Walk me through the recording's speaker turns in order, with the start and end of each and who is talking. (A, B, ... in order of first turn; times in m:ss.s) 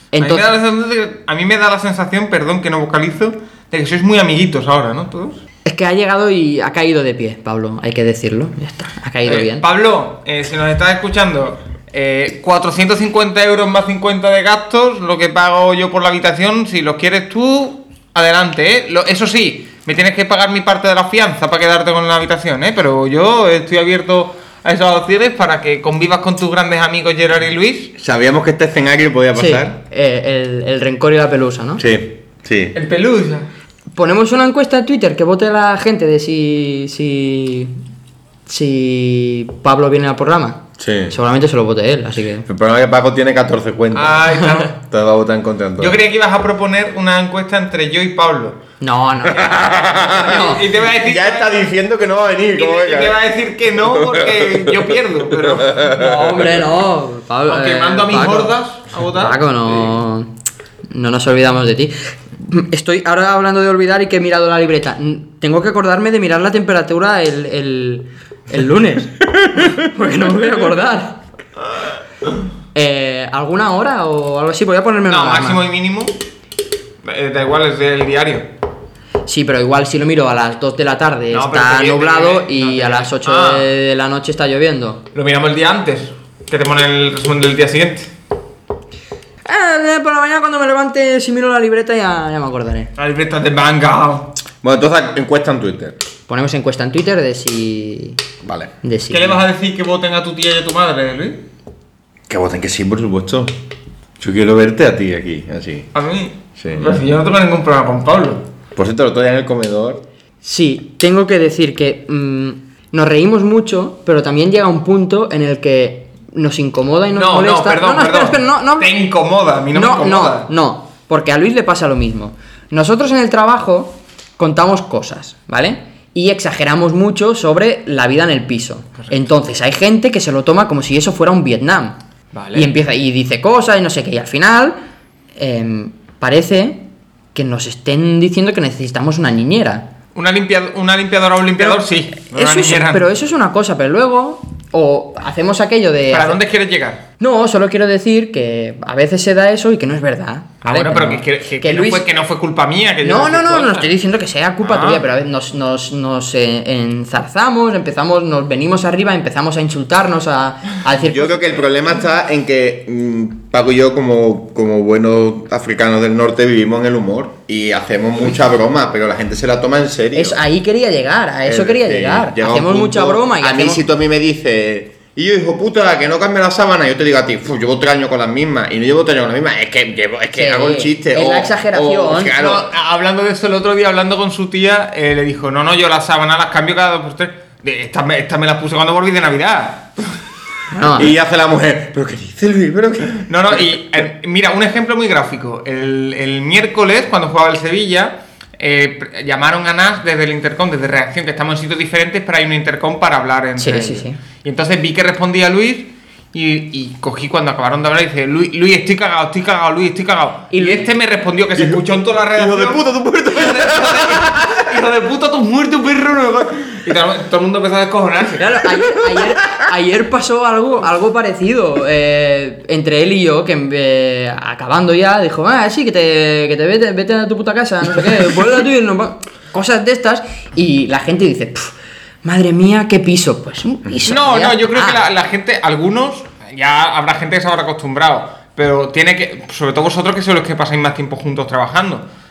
0:00.1-0:00.5 A
0:00.2-0:05.4 B
0:05.6-0:09.6 A
0:09.2-0:27.9 B
0:28.0-0:29.8 C
0:29.3-0:31.8 A
0:31.8-0:32.7 C
0:32.7-0:33.5 B
0:33.9-0:37.8 A
0:38.5-0:42.4 A
0:40.8-0:41.1 C
0:42.5-0:44.2 C
0:43.9-0:44.8 B
0:44.8-0:46.0 C
0:45.8-0:48.6 B
0:48.8-0:50.6 A
0:49.3-0:53.2 C
0:50.1-0:51.6 B
0:52.5-0:55.9 B
0:53.9-0:54.7 C
0:55.3-0:56.3 C
0:55.8-0:58.5 A
0:57.5-0:59.4 B
0:59.1-1:00.3 A
1:00.9-1:11.2 A
1:12.7-1:15.6 A
1:15.1-1:16.1 B
1:17.0-1:18.5 B
1:19.2-1:25.0 A
1:21.3-1:23.7 B
1:25.1-1:28.1 B
1:29.4-1:32.9 A
1:33.0-1:34.4 B
1:34.6-1:36.0 C
1:36.3-1:38.2 A
1:38.4-1:38.7 C
1:38.8-1:39.4 A
1:39.1-1:41.4 B
1:42.3-1:43.5 C
1:44.2-1:45.9 C
1:45.9-1:48.5 B
1:46.6-1:47.0 C
1:48.8-1:50.0 C
1:50.4-1:58.9 A
1:57.1-2:00.5 B
1:59.7-2:12.0 A
2:12.3-2:12.7 B
2:12.5-2:14.8 A
2:15.4-2:19.9 A
2:20.1-2:23.1 B
2:21.5-2:26.4 A
2:26.1-2:27.0 B
2:27.2-2:32.1 A
2:30.6-2:33.9 B
2:33.0-2:41.5 A
2:34.6-2:35.0 B
2:41.0-2:50.4 C
2:50.1-2:53.8 A
2:51.4-3:02.7 C
3:00.3-3:02.4 A
3:02.3-3:10.2 B
3:10.7-3:11.1 A
3:10.9-3:13.3 C
3:13.3-3:38.6 B
3:23.6-3:24.2 A
3:30.5-3:30.9 A
3:31.6-3:31.8 C
3:32.3-3:34.6 C
3:38.4-3:51.7 A
3:52.2-3:55.0 A
3:54.1-4:02.0 B